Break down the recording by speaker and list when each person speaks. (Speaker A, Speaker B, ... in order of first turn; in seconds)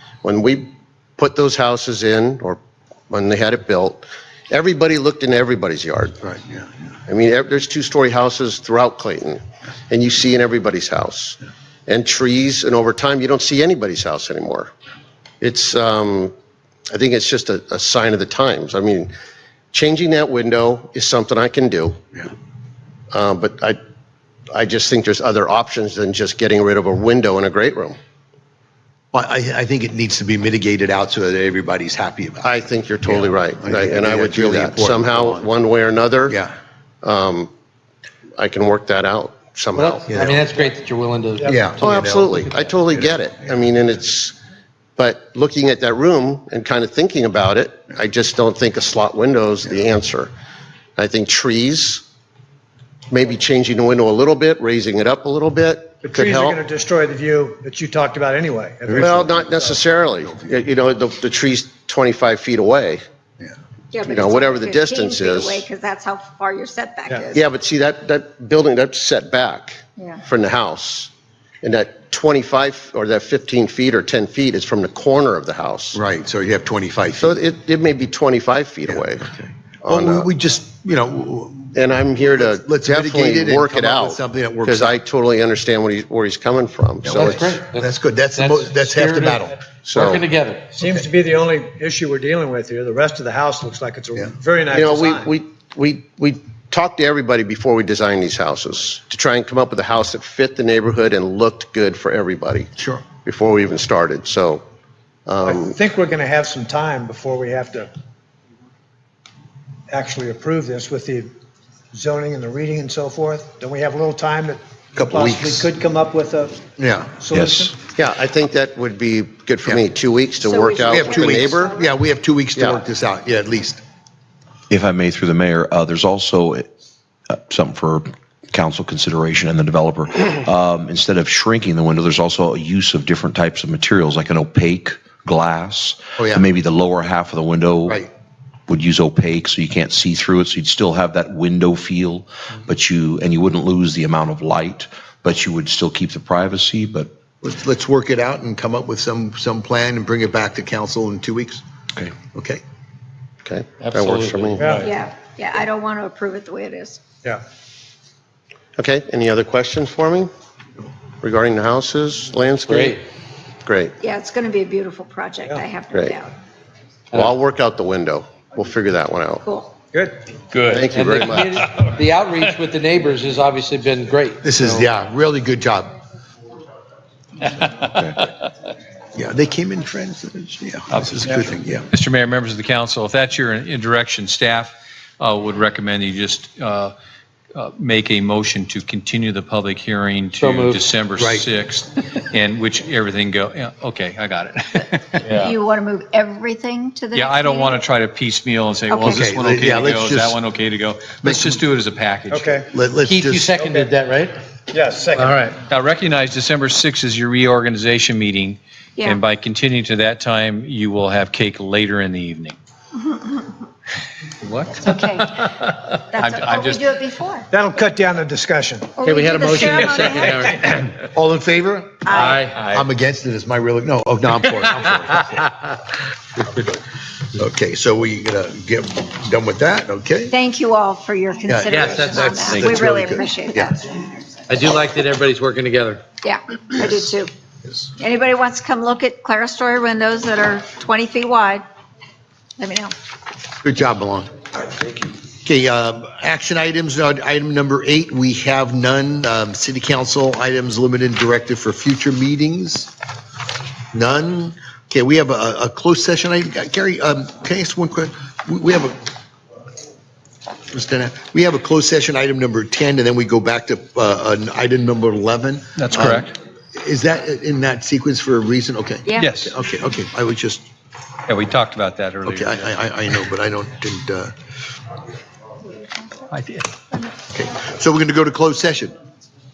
Speaker A: 0.2-2.6, 3.1-6.2, 7.1-14.7, 15.4-16.4, 16.9-19.1, 19.7-22.0, 23.1-23.8, 24.5-28.0, 32.4-36.4, 37.0-37.5, 38.4-40.4, 41.8-44.4, 45.0-50.3, 51.0-52.0, 53.1-56.6, 59.0-63.0, 64.0-65.7, 67.3-71.1, 71.6-76.0, 77.2-80.3, 81.7-87.5, 89.8-90.3, 94.7-102.7, 103.2-104.7, 105.3-105.8, 117.9-121.8, 122.6-122.8, 153.4-154.8, 158.8-160.3, 161.2-163.0, 163.7-164.0, 165.9-166.2, 167.1-169.4, 170.7-171.9
Speaker B: 6.2-7.0, 29.1-35.5, 36.3-36.5, 40.1-40.4, 41.5-43.0, 58.9-59.3, 60.2-60.6, 75.9-77.4, 78.9-85.0, 87.0-89.6, 102.8-103.0, 115.0-115.7, 116.8-117.2, 120.8-123.8, 136.2-136.5, 147.4-151.6, 152.2-152.6, 174.4-175.9, 179.2-181.9, 191.2-191.5, 199.1-200.4, 201.2-201.6, 202.7-203.6, 221.0-225.6, 226.4-230.3, 231.5-233.8, 243.6-244.4, 245.3-252.9, 253.9-259.0, 260.7-270.7, 272.2-274.4, 277.3-278.9
Speaker C: 39.8-41.5, 87.1-90.7, 153.8-154.6, 170.8-174.9, 190.4-190.9, 195.2-195.6, 203.0-204.4, 205.2-205.5, 219.1-220.9, 222.1-222.6, 231.7-232.9, 234.5-236.1
Speaker D: 41.4-41.7, 56.0-59.8, 90.7-95.3, 105.4-107.9, 109.9-111.3, 111.9-116.6, 117.2-117.8, 154.6-154.9, 169.9-170.2, 202.3-202.7, 203.6-203.9, 204.7-205.6, 217.5-220.6
Speaker E: 63.9-67.5, 120.4-121.9, 154.8-157.0, 164.0-166.3, 169.4-169.8, 195.4-197.8, 198.9-199.2, 214.9-215.2, 216.1-217.4, 219.0-220.5, 222.1-222.4, 230.3-233.9, 236.2-237.3, 238.0-241.7, 242.6-242.9, 275.8-276.2
Speaker F: 117.3-117.7, 124.7-126.7, 127.3-138.1, 138.7-147.1
Speaker G: 170.5-171.9, 180.9-186.9, 187.6-195.3, 197.1-202.6, 205.6-212.6, 214.4-217.0, 222.4-222.8, 265.8-266.3, 269.2-269.5, 271.3-272.8, 276.3-276.7